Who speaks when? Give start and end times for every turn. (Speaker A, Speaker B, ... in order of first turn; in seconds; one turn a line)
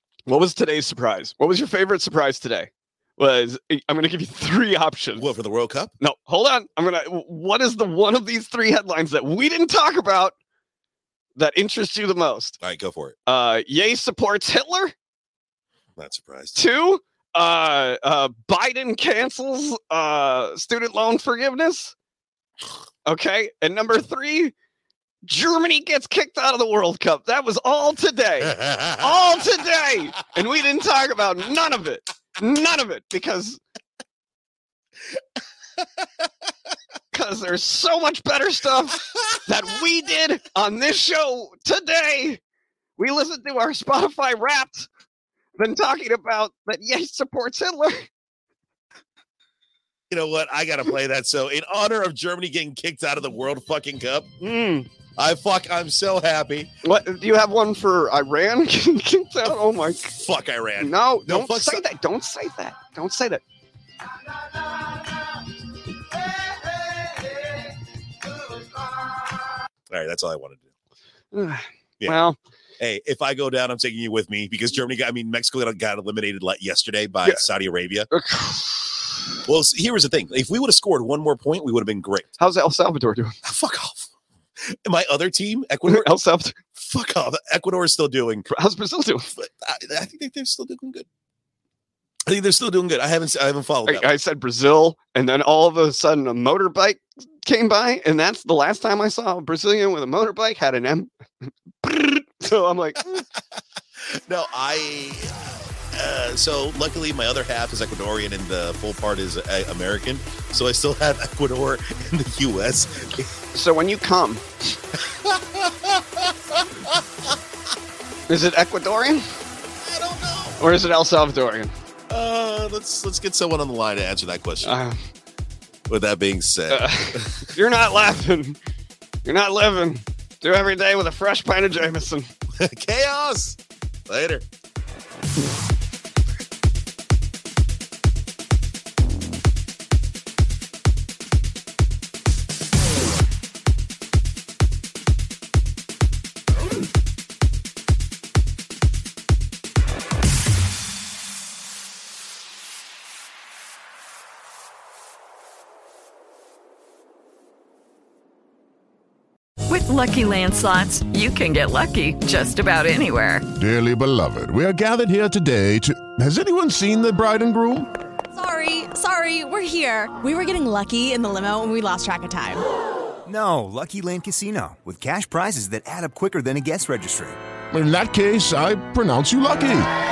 Speaker A: 0.3-5.3
Speaker B: 5.2-5.9
Speaker A: 6.0-10.3
Speaker A: 11.4-12.6
Speaker B: 12.6-13.2
Speaker A: 13.3-14.9
Speaker B: 16.0-16.6
Speaker A: 16.6-21.9
Speaker A: 23.1-24.5
Speaker A: 25.3-33.6
Speaker B: 28.4-29.2
Speaker A: 37.1-42.4
Speaker A: 43.0-44.9
Speaker A: 45.6-48.1
Speaker B: 50.1-54.3
Speaker A: 54.4-54.9
Speaker B: 55.2-56.7
Speaker A: 56.8-60.1
Speaker B: 60.1-61.8
Speaker A: 60.8-63.4
Speaker B: 69.9-70.7
Speaker A: 71.3-72.4
Speaker B: 72.8-78.1
Speaker A: 78.1-79.2
Speaker B: 79.5-82.3
Speaker A: 82.4-83.4
Speaker B: 83.4-84.1
Speaker B: 84.6-86.1
Speaker A: 85.9-86.6
Speaker B: 86.8-88.5
Speaker A: 88.5-89.3
Speaker B: 89.4-91.1
Speaker B: 92.3-94.1
Speaker A: 93.9-103.2
Speaker B: 104.0-113.3
Speaker A: 113.5-114.5
Speaker B: 115.0-117.4
Speaker A: 118.3-119.3
Speaker B: 119.8-120.6
Speaker A: 120.6-121.7
Speaker B: 122.1-124.8
Speaker A: 124.6-125.0
Speaker B: 125.9-127.5
Speaker A: 126.7-128.6
Speaker A: 129.2-132.3
Speaker B: 132.6-134.4
Speaker C: 159.7-163.5
Speaker D: 163.5-167.9
Speaker E: 168.3-172.6
Speaker F: 173.2-177.4
Speaker D: 177.7-179.9